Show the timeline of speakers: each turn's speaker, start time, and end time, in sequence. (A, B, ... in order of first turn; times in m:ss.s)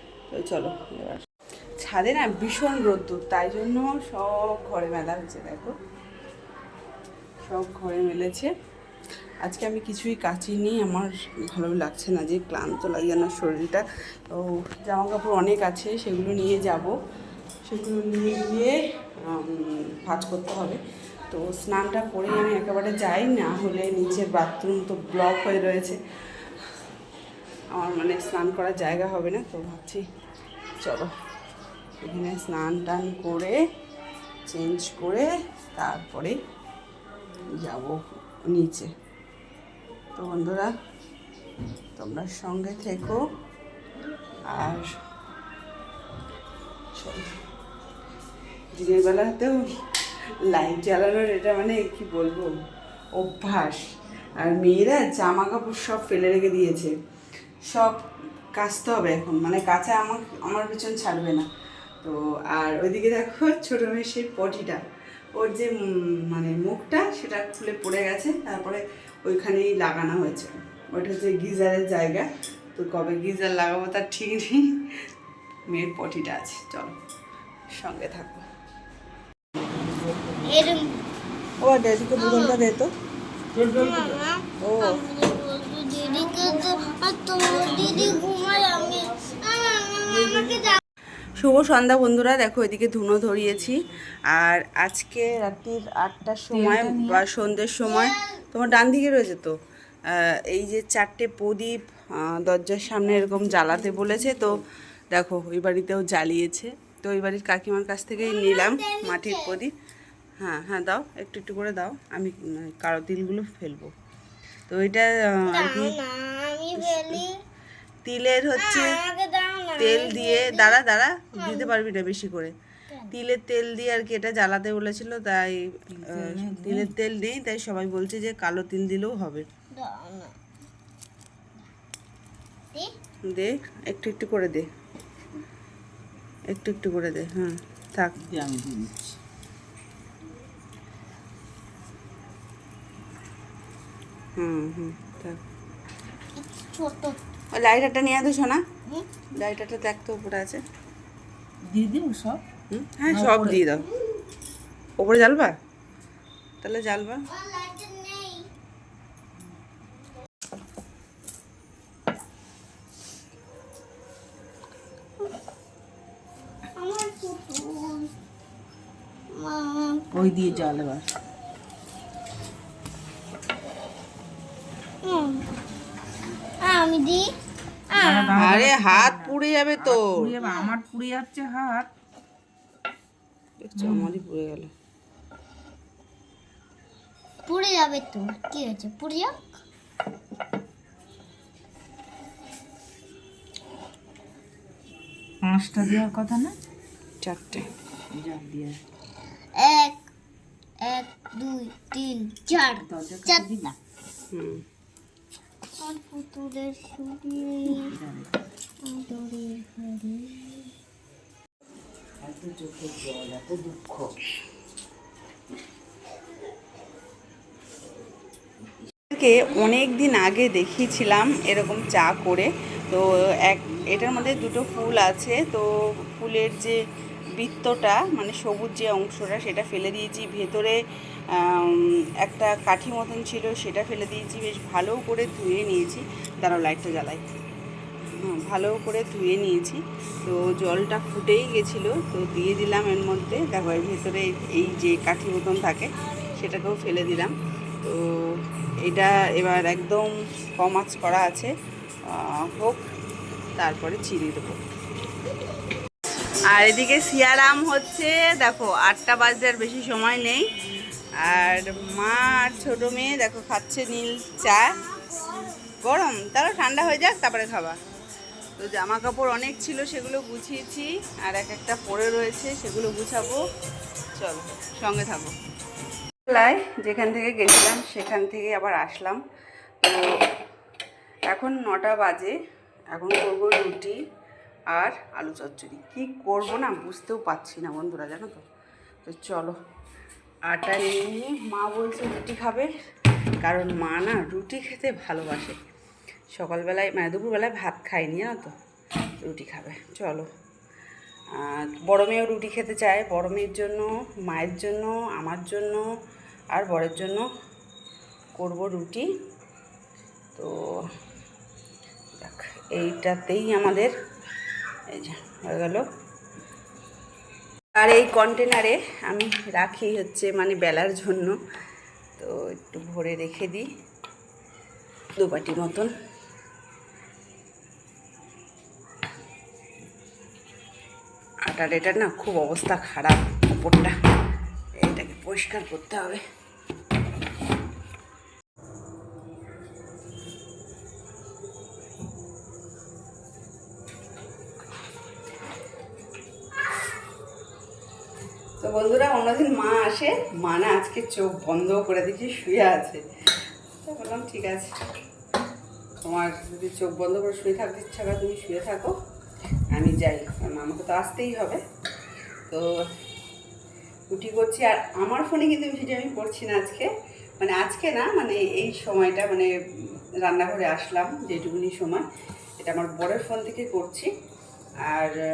0:00.3-0:01.2 A
0:01.8-0:05.7 A
0:07.4-0:08.5 A
0:09.4-0:16.9 A
0:17.6-0:26.0 A
0:27.7-0:30.0 A
0:30.8-0:31.1 A
0:32.0-0:33.6 A
0:34.5-0:36.4 A
0:37.6-0:38.9 A
0:40.1-0:40.7 A
0:42.0-0:43.2 A
0:44.5-0:44.9 A
0:47.0-0:47.3 A
0:48.7-0:49.8 A
0:50.5-0:52.5 A
0:53.1-0:53.8 A
0:54.4-0:56.9 A
0:57.7-1:01.5 A
1:02.0-1:04.8 A
1:05.4-1:15.0 A
1:15.7-1:16.9 A
1:17.8-1:18.4 A
1:20.3-1:21.0 B
1:21.6-1:22.9 A
1:22.2-1:22.6 B
1:23.6-1:30.8 B
1:24.6-1:25.0 A
1:27.7-1:28.1 C
1:31.3-1:33.8 A
1:34.3-1:39.5 A
1:36.5-1:37.2 C
1:40.1-1:49.7 A
1:48.3-1:49.6 B
1:50.4-1:53.9 A
1:54.7-1:56.0 A
1:55.5-1:57.4 B
1:56.8-1:57.2 A
1:58.0-1:59.0 A
1:58.6-2:00.8 B
1:59.8-2:02.5 A
2:01.4-2:01.7 B
2:03.1-2:09.4 A
2:05.9-2:06.9 C
2:09.7-2:10.4 B
2:13.3-2:14.7 A
2:16.5-2:18.2 A
2:18.2-2:19.2 C
2:24.4-2:25.4 A
2:26.4-2:27.2 B
2:27.5-2:28.6 A
2:29.3-2:30.6 A
2:31.6-2:32.4 C
2:32.7-2:33.9 A
2:33.1-2:33.6 C
2:35.0-2:35.6 A
2:36.6-2:37.3 A
2:37.3-2:38.5 B
2:46.8-2:48.1 B
2:49.3-2:50.7 B
2:50.1-2:51.1 C
2:55.0-2:55.5 B
2:56.6-2:57.3 B
2:57.9-2:58.3 B
2:58.0-3:01.9 C
2:58.3-3:00.3 A
3:00.4-3:00.7 B
3:03.6-3:04.7 A
3:03.8-3:04.2 C
3:07.4-3:09.4 B
3:15.4-3:16.5 C
3:17.2-3:17.7 A
3:18.1-3:18.8 C
3:19.5-3:20.1 B
3:20.8-3:23.5 B
3:22.8-3:23.8 C
3:24.3-3:24.6 A
3:25.8-3:28.0 B
3:27.8-3:28.3 C
3:28.8-3:30.7 B
3:32.2-3:34.1 C
3:39.1-3:46.8 A
3:47.4-3:50.8 A
3:51.3-3:57.2 A
3:58.1-4:11.5 A
4:12.1-4:12.8 A
4:13.6-4:14.6 A
4:16.5-4:20.4 A
4:21.2-4:24.7 A
4:25.2-4:25.5 B
4:25.8-4:27.8 A
4:28.6-4:33.4 A
4:34.2-4:35.3 A
4:36.3-4:39.2 A
4:39.8-4:40.2 A
4:41.3-4:42.4 A
4:42.9-4:44.0 A
4:44.7-4:48.4 A
4:49.0-4:49.6 A
4:50.5-4:52.7 A
4:53.4-4:55.6 A
4:56.3-4:58.5 A
4:59.2-5:00.2 A
5:01.4-5:05.8 A
5:06.5-5:07.2 A
5:08.4-5:09.1 A
5:12.2-5:13.9 A
5:14.9-5:15.8 A
5:17.7-5:21.3 A
5:22.2-5:23.6 A
5:25.2-5:25.9 A
5:31.4-5:33.9 A
5:34.8-5:36.2 A
5:48.6-5:53.0 A
5:53.8-5:54.7 A
5:56.0-5:58.9 A
5:59.7-6:01.6 A
6:04.1-6:06.9 A
6:07.4-6:09.5 A
6:10.2-6:12.0 A
6:12.6-6:14.1 A
6:14.9-6:15.2 A